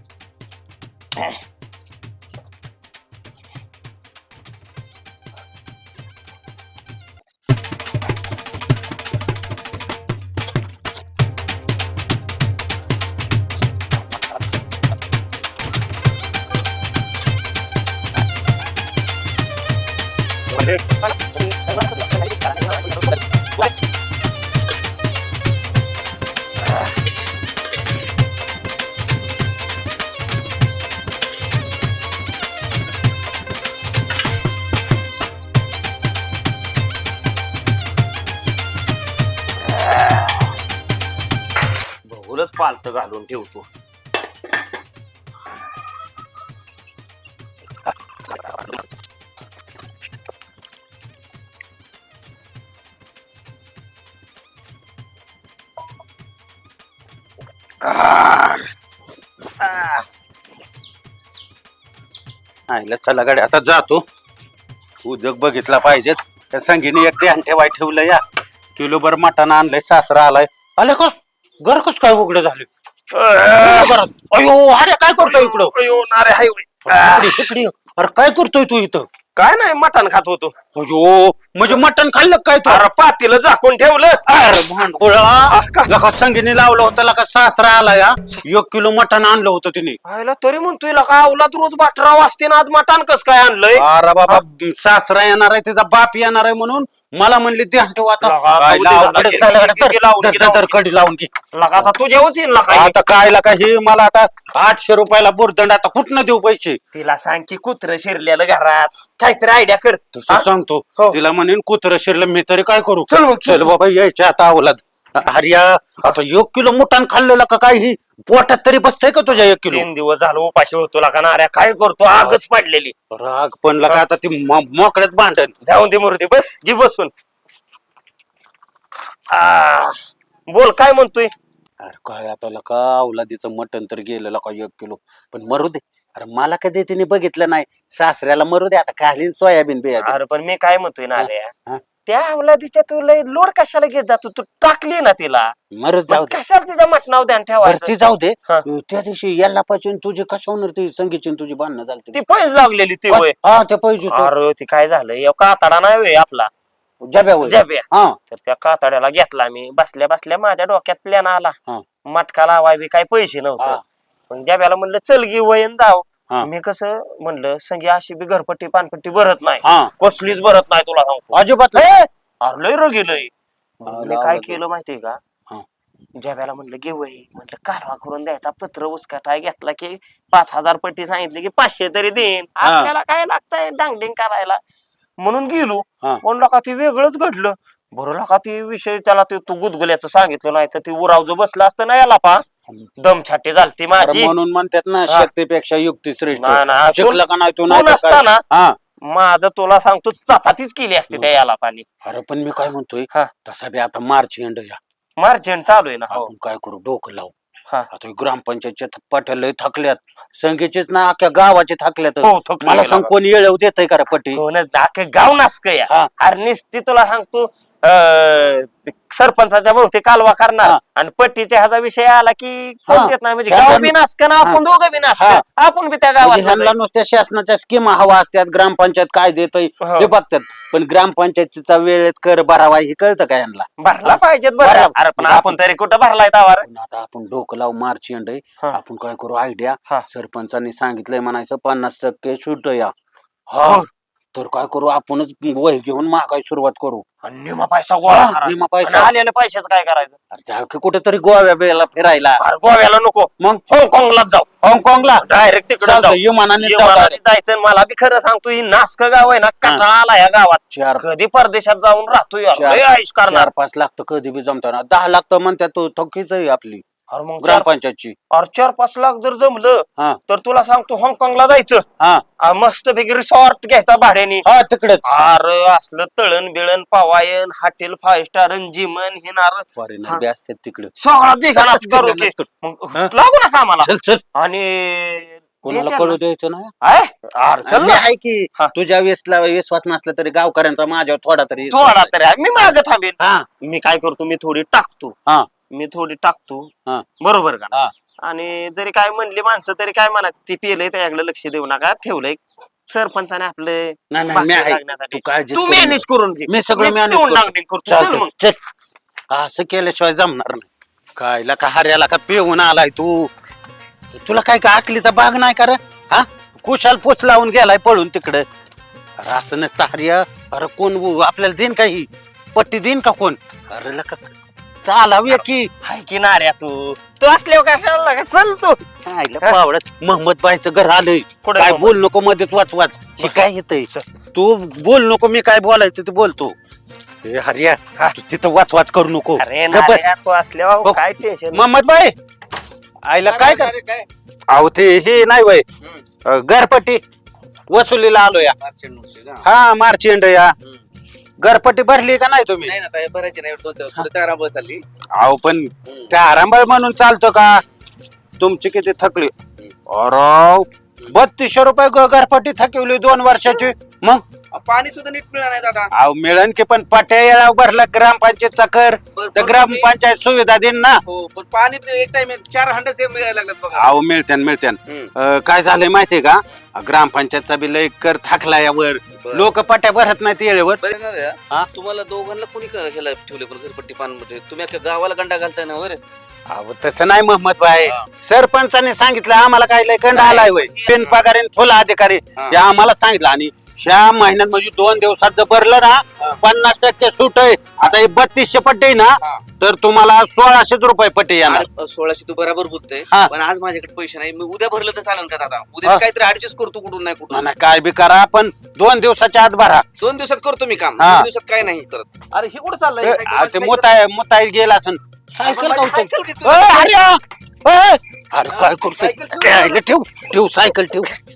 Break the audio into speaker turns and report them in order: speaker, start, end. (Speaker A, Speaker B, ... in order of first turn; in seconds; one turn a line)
Speaker A: 20.6-23.1
Speaker A: 42.1-43.7
Speaker B: 57.9-58.5
Speaker B: 62.7-64.0
Speaker B: 65.0-68.2
Speaker B: 68.8-72.7
Speaker A: 73.1-74.0
Speaker B: 73.6-75.7
Speaker A: 75.2-77.5
Speaker B: 76.9-79.1
Speaker A: 79.4-80.5
Speaker B: 80.8-82.9
Speaker A: 82.7-84.2
Speaker B: 84.3-90.0
Speaker A: 85.5-85.9
Speaker A: 90.0-94.4
Speaker B: 93.8-101.9
Speaker A: 98.2-100.7
Speaker A: 101.5-103.0
Speaker B: 102.7-106.8
Speaker A: 106.9-111.2
Speaker B: 110.1-119.9
Speaker A: 113.1-113.7
Speaker A: 119.7-123.0
Speaker B: 122.1-122.4
Speaker B: 123.1-125.5
Speaker A: 125.6-127.1
Speaker A: 129.3-130.0
Speaker A: 130.5-131.3
Speaker B: 131.8-140.2
Speaker A: 140.0-141.5
Speaker B: 141.2-141.8
Speaker A: 142.1-145.5
Speaker B: 145.7-146.4
Speaker A: 146.1-147.9
Speaker B: 147.6-152.2
Speaker A: 152.1-153.3
Speaker B: 153.1-154.3
Speaker A: 154.1-156.5
Speaker B: 157.0-158.2
Speaker A: 157.4-161.6
Speaker A: 162.1-173.3
Speaker B: 169.6-169.9
Speaker B: 171.3-171.9
Speaker A: 173.8-175.2
Speaker B: 173.8-174.6
Speaker A: 176.2-184.6
Speaker B: 182.6-182.9
Speaker A: 185.2-192.4
Speaker A: 193.0-194.3
Speaker B: 193.9-198.8
Speaker A: 196.3-198.4
Speaker A: 199.0-201.9
Speaker B: 202.0-204.8
Speaker A: 205.2-206.3
Speaker B: 206.1-207.3
Speaker B: 207.9-214.4
Speaker A: 212.2-213.1
Speaker A: 214.3-226.7
Speaker B: 222.9-224.6
Speaker B: 225.2-225.4
Speaker B: 226.2-235.6
Speaker A: 229.8-230.1
Speaker A: 233.8-236.7
Speaker B: 236.7-242.9
Speaker B: 243.5-247.1
Speaker A: 247.2-250.2
Speaker B: 248.1-249.1
Speaker B: 250.3-252.4
Speaker A: 252.4-254.5
Speaker B: 254.6-255.3
Speaker A: 255.2-263.5
Speaker B: 255.8-257.2
Speaker B: 260.7-261.0
Speaker B: 262.5-266.8
Speaker A: 267.1-267.7
Speaker B: 267.4-268.2
Speaker A: 268.3-271.8
Speaker B: 272.0-272.2
Speaker A: 272.4-274.4
Speaker B: 274.4-275.2
Speaker A: 275.1-280.2
Speaker B: 279.8-280.9
Speaker A: 281.0-286.2
Speaker B: 281.6-283.1
Speaker B: 283.8-284.2
Speaker B: 285.6-286.7
Speaker A: 286.8-288.0
Speaker B: 287.7-292.1
Speaker A: 291.7-295.1
Speaker B: 293.2-293.5
Speaker A: 295.7-308.3
Speaker B: 304.1-308.6
Speaker B: 309.3-313.3
Speaker B: 314.1-318.5
Speaker B: 319.2-325.7
Speaker A: 325.3-328.8
Speaker B: 329.1-336.6
Speaker A: 331.4-331.9
Speaker B: 337.2-340.1
Speaker A: 339.4-341.7
Speaker B: 341.5-342.1
Speaker B: 343.1-343.7
Speaker C: 343.3-344.1
Speaker B: 344.5-345.7
Speaker B: 346.3-347.0
Speaker B: 347.7-348.6
Speaker C: 348.6-349.4
Speaker B: 349.4-350.6
Speaker B: 351.4-352.7
Speaker C: 352.6-354.8
Speaker B: 355.2-357.6
Speaker B: 358.4-364.3
Speaker C: 364.5-365.9
Speaker B: 366.0-371.0
Speaker C: 369.2-369.9
Speaker C: 371.1-373.9
Speaker B: 373.7-380.8
Speaker C: 379.2-379.5
Speaker C: 380.8-386.0
Speaker B: 386.5-401.7
Speaker C: 390.1-391.2
Speaker C: 401.5-407.5
Speaker B: 407.3-409.9
Speaker C: 410.0-413.9
Speaker B: 411.0-411.3
Speaker B: 413.0-421.1
Speaker C: 415.4-416.9
Speaker C: 418.5-419.8